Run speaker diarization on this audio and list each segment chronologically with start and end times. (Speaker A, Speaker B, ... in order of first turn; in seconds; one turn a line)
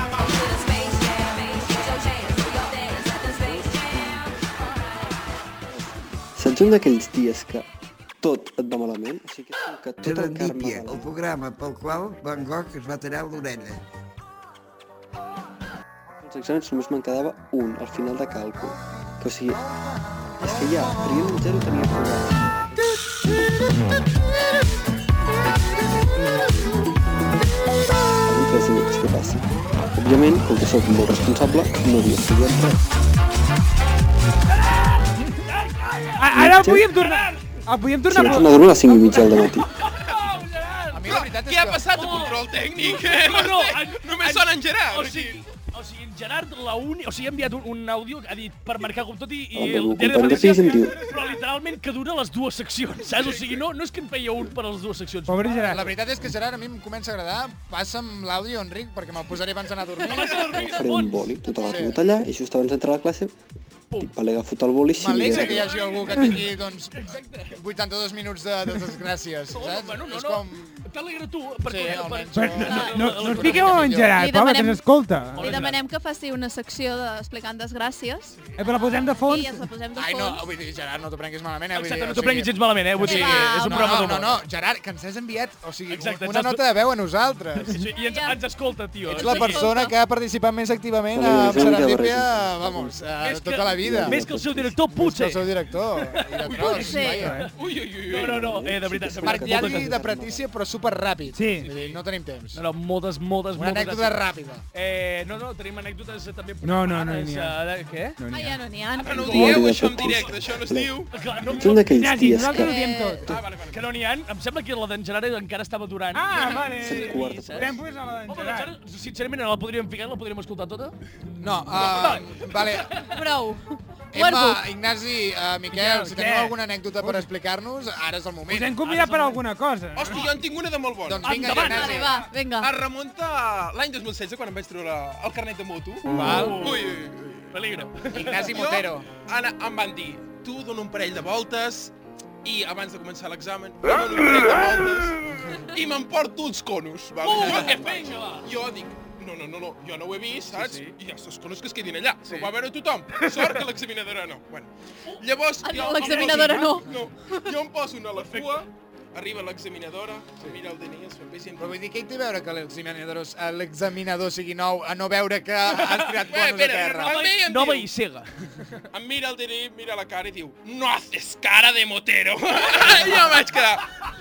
Speaker A: 3.0-4.3
Speaker A: 5.7-7.7
Speaker A: 8.2-11.1
Speaker B: 10.0-13.8
Speaker A: 16.2-19.6
Speaker A: 20.4-22.7
Speaker A: 28.2-32.8
Speaker C: 34.5-37.5
Speaker D: 36.2-39.1
Speaker A: 36.3-36.9
Speaker A: 38.1-39.7
Speaker C: 38.6-41.2
Speaker E: 40.9-41.9
Speaker F: 41.0-45.4
Speaker C: 41.9-55.9
Speaker A: 49.5-51.0
Speaker F: 53.1-53.6
Speaker D: 55.3-55.9
Speaker E: 55.7-60.8
Speaker C: 60.0-61.9
Speaker A: 60.7-63.3
Speaker E: 61.7-62.0
Speaker A: 64.0-65.7
Speaker E: 65.0-70.8
Speaker C: 65.2-67.5
Speaker C: 69.5-73.9
Speaker E: 71.7-74.2
Speaker D: 72.3-75.7
Speaker G: 72.6-73.1
Speaker G: 74.1-74.8
Speaker G: 75.3-78.4
Speaker C: 75.4-75.8
Speaker D: 78.6-79.7
Speaker G: 79.2-80.5
Speaker E: 79.9-87.8
Speaker C: 81.7-84.4
Speaker G: 83.0-84.1
Speaker C: 85.9-86.7
Speaker C: 87.6-89.7
Speaker G: 88.0-88.4
Speaker E: 89.0-94.2
Speaker G: 89.1-90.0
Speaker A: 91.1-93.0
Speaker C: 93.2-97.5
Speaker A: 93.8-94.8
Speaker E: 94.8-97.5
Speaker F: 96.4-98.4
Speaker G: 96.5-97.3
Speaker D: 97.1-97.5
Speaker C: 98.0-99.9
Speaker A: 98.2-100.5
Speaker E: 99.2-102.6
Speaker D: 101.3-101.7
Speaker F: 101.6-102.0
Speaker C: 102.5-108.2
Speaker E: 103.5-104.6
Speaker D: 106.6-107.6
Speaker D: 108.2-108.6
Speaker G: 108.3-109.6
Speaker F: 108.9-111.1
Speaker A: 109.2-110.9
Speaker C: 111.1-111.9
Speaker A: 111.5-113.4
Speaker D: 111.7-113.3
Speaker G: 112.5-113.2
Speaker F: 113.2-113.9
Speaker C: 113.7-120.9
Speaker D: 116.1-118.7
Speaker A: 116.8-117.8
Speaker E: 121.4-123.0
Speaker C: 121.7-123.1
Speaker G: 123.1-124.6
Speaker E: 124.1-128.7
Speaker D: 125.7-127.3
Speaker D: 128.5-130.3
Speaker C: 128.8-129.4
Speaker F: 129.9-137.6
Speaker E: 131.1-132.2
Speaker C: 131.2-132.1
Speaker G: 131.6-132.7
Speaker E: 136.1-136.7
Speaker C: 136.1-137.0
Speaker C: 137.5-138.4
Speaker E: 138.1-139.1
Speaker F: 138.4-161.8
Speaker C: 147.2-148.5
Speaker C: 150.5-150.9
Speaker C: 152.2-152.5
Speaker C: 153.1-153.6
Speaker G: 155.6-157.5
Speaker C: 155.7-156.8
Speaker C: 158.2-158.6
Speaker E: 161.6-167.3
Speaker F: 166.2-167.9
Speaker C: 167.0-168.3
Speaker F: 168.9-173.8